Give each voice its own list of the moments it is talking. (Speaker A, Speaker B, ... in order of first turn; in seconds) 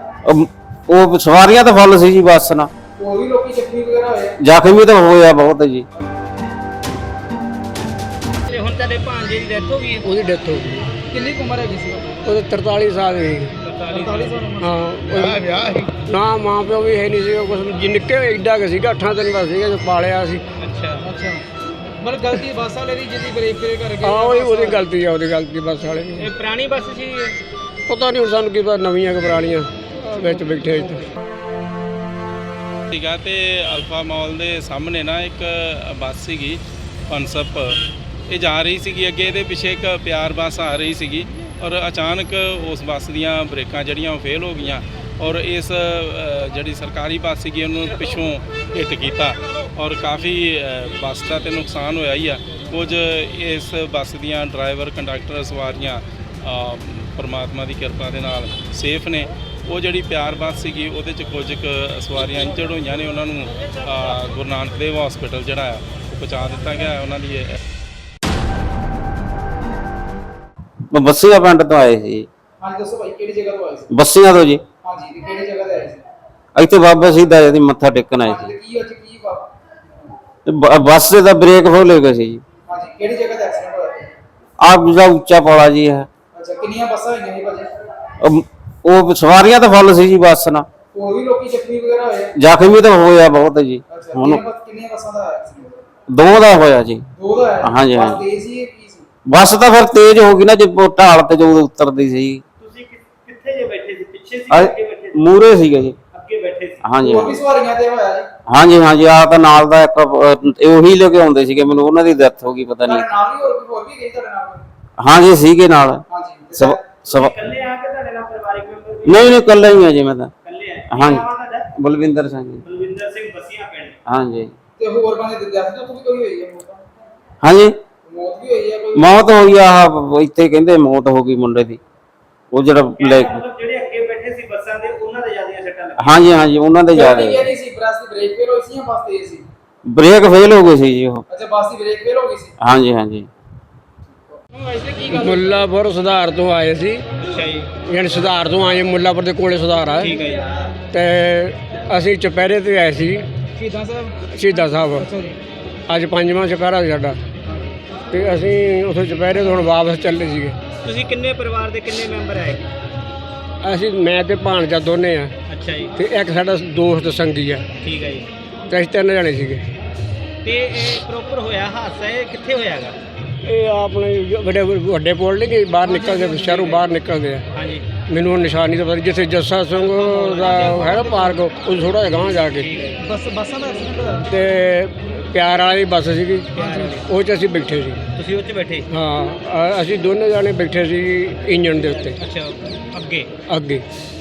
Speaker A: 0.2-2.7, 4.4-5.8, 70.9-72.3, 73.9-74.6, 76.5-78.5, 80.5-82.4, 84.6-86.1, 88.2-90.7, 92.3-94.4, 96.1-97.0, 97.6-98.2, 99.3-102.4, 104.5-106.0, 106.8-107.4, 108.5-113.1, 115.0-116.0, 116.5-117.4, 119.0-120.3, 120.9-122.7, 124.0-124.5, 127.4-127.7, 128.9-131.8, 132.5-133.4, 136.0-137.5, 139.9-141.2, 142.6-143.3
Speaker B: 3.0-4.3, 11.1-12.2, 13.8-14.7, 21.0-21.4, 22.0-24.8, 72.6-73.9, 74.8-76.0, 78.2-79.5, 82.7-84.1, 86.3-87.7, 90.9-92.3, 93.9-95.8, 97.2-99.0, 107.0-108.3, 112.8-114.6, 116.1-117.0, 124.8-126.8, 128.1-129.2, 136.9-139.4, 141.3-142.5, 144.3-145.6, 150.0-150.3, 153.5-154.2, 154.9-155.3, 175.8-176.7, 179.8-181.4, 183.0-184.3, 186.5-187.0
Speaker C: 8.5-10.0, 13.6-14.1, 20.6-20.9, 26.3-27.4, 103.4-104.3, 117.1-119.5, 120.4-121.7, 122.7-123.9, 133.0-135.7, 147.2-147.6, 160.8-162.7, 165.5-165.9, 167.8-168.3, 170.4-173.0, 177.5-177.8, 182.6-182.9, 188.2-188.9, 192.2-193.3
Speaker D: 10.0-10.9, 12.2-13.6, 14.6-20.4, 24.0-26.3, 27.9-31.0, 145.1-147.0, 147.8-150.2, 150.9-153.3, 154.2-155.1, 155.9-157.2, 158.1-160.6, 163.6-165.3, 165.9-167.7, 168.7-169.7, 173.4-177.5, 178.0-182.7, 184.3-188.0, 188.9-192.2, 193.5-193.8
Speaker E: 32.9-67.5